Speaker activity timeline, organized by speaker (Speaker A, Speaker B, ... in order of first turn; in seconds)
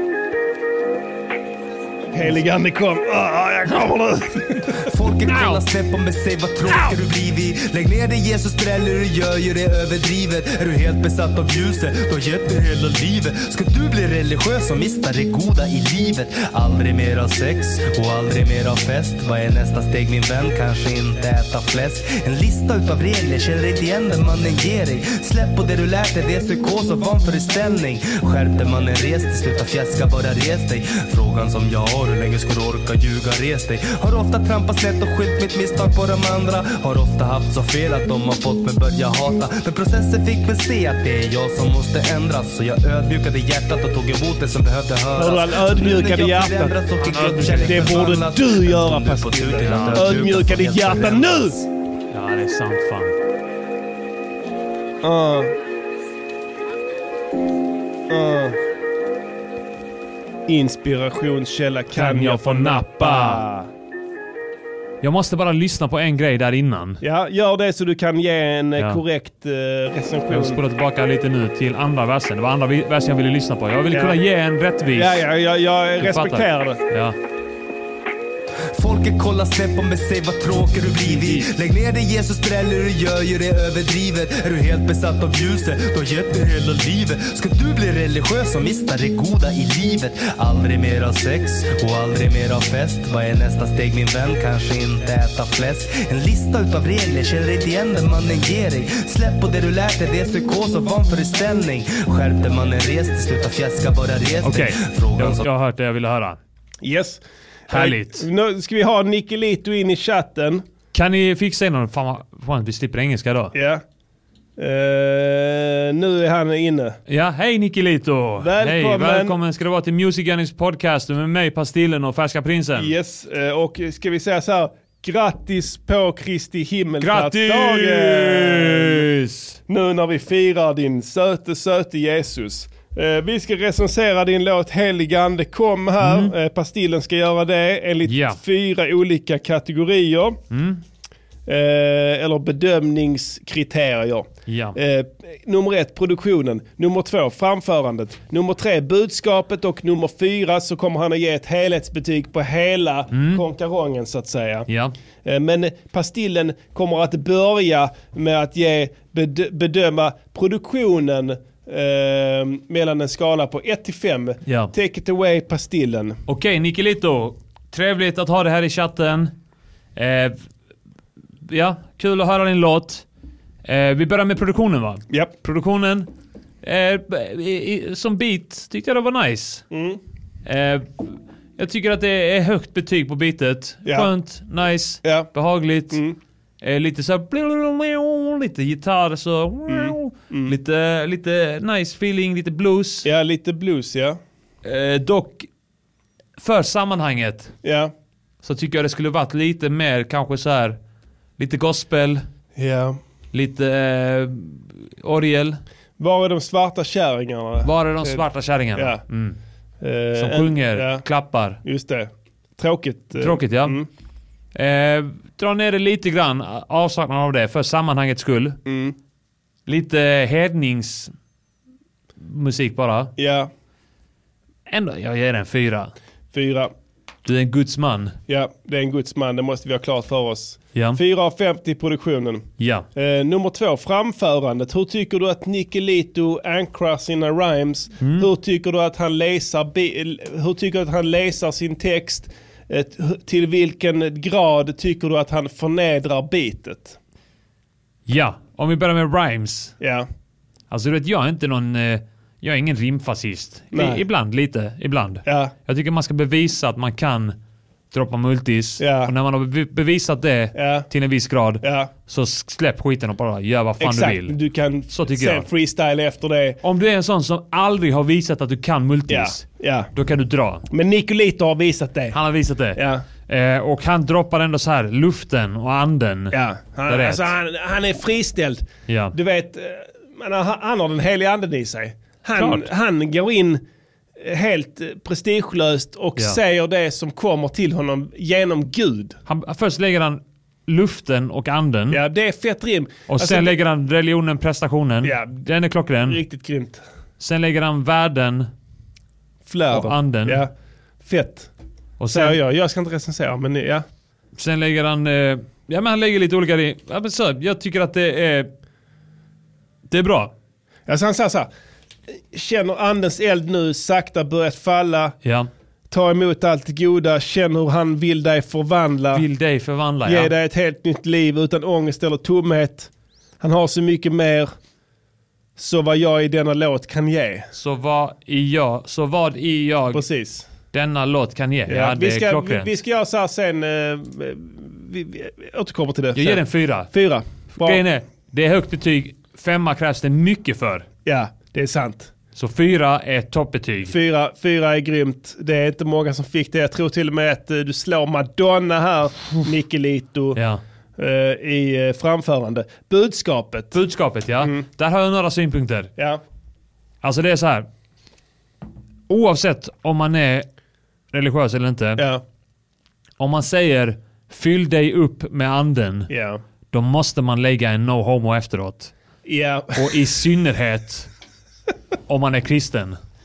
Speaker A: 2.1-4.8, 45.1-46.8, 47.4-51.5, 55.0-55.5, 58.1-58.6, 60.5-63.7, 67.0-70.6, 73.9-74.2, 74.9-76.8, 106.8-110.6, 113.5-113.8, 114.6-117.0, 118.4-119.4, 122.8-129.0, 129.7-140.4, 141.5-154.7, 155.2-166.2, 179.7-180.0, 183.8-184.1, 185.0-185.3, 185.9-186.2, 189.7-190.5, 193.0-194.2, 197.6-197.9, 202.6-203.0, 206.0-209.0, 209.8-211.0, 211.6-213.9, 218.6-218.9, 223.2-223.5, 226.3-226.7, 228.3-247.0, 249.8-250.1, 253.7-254.0, 255.2-255.5, 258.8-259.1, 260.5-260.9, 261.6-261.9, 263.8-266.6, 269.1-269.9, 270.7-272.2, 272.7-273.0, 276.3-283.6, 284.2-289.2, 291.9-293.6, 295.0-295.4, 296.0-296.8, 299.5-300.5, 301.0-301.5, 302.1-303.8, 310.9-311.5, 312.3-315.1, 315.9-319.2, 320.0-322.9, 323.4-324.5, 325.6-327.5, 329.9-330.5, 331.7-337.8, 341.0-342.1, 343.9-350.4, 351.0-353.8, 354.4-354.6, 361.9-362.2, 366.1-366.4, 369.2-369.9
Speaker B: 4.8-51.6, 78.7-105.5
Speaker C: 5.2-5.6, 47.0-48.1, 49.6-50.3, 52.1-53.1, 61.9-63.4, 65.0-67.0, 70.3-75.2, 76.0-77.2, 81.0-81.5, 104.4-106.4, 107.7-108.2, 110.9-113.5, 117.1-122.9, 127.0-129.6, 136.0-136.3, 138.1-138.4, 140.5-140.8, 144.4-144.8, 153.1-153.4, 154.7-154.9, 164.4-164.7, 166.3-169.3, 169.9-170.4, 171.5-173.0, 173.6-176.1, 176.6-179.7, 180.4-186.0, 186.6-193.1, 194.6-195.5, 196.4-197.5, 198.4-200.8, 201.4-202.2, 203.3-205.6, 207.6-209.4, 210.2-211.6, 213.2-213.8, 214.5-218.6, 219.7-221.1, 222.2-223.1, 224.7-225.9, 227.2-228.2, 232.6-232.8, 238.0-238.3, 248.1-249.8, 250.7-257.4, 257.9-264.4, 264.9-265.4, 266.6-270.6, 272.1-276.3, 276.9-277.3, 278.9-279.1, 282.4-282.7, 289.2-292.0, 293.1-296.2, 297.2-298.5, 299.7-300.4, 302.0-302.4, 304.4-308.5, 309.9-310.3, 315.2-315.5, 319.1-320.3, 327.5-330.0, 330.7-332.7, 336.1-336.9, 337.5-340.9, 342.4-343.9, 350.4-350.6, 353.7-355.9, 357.0-357.7, 359.1-360.4, 361.1-362.0, 363.2-366.1, 366.7-368.9, 369.8-371.1, 372.1-373.0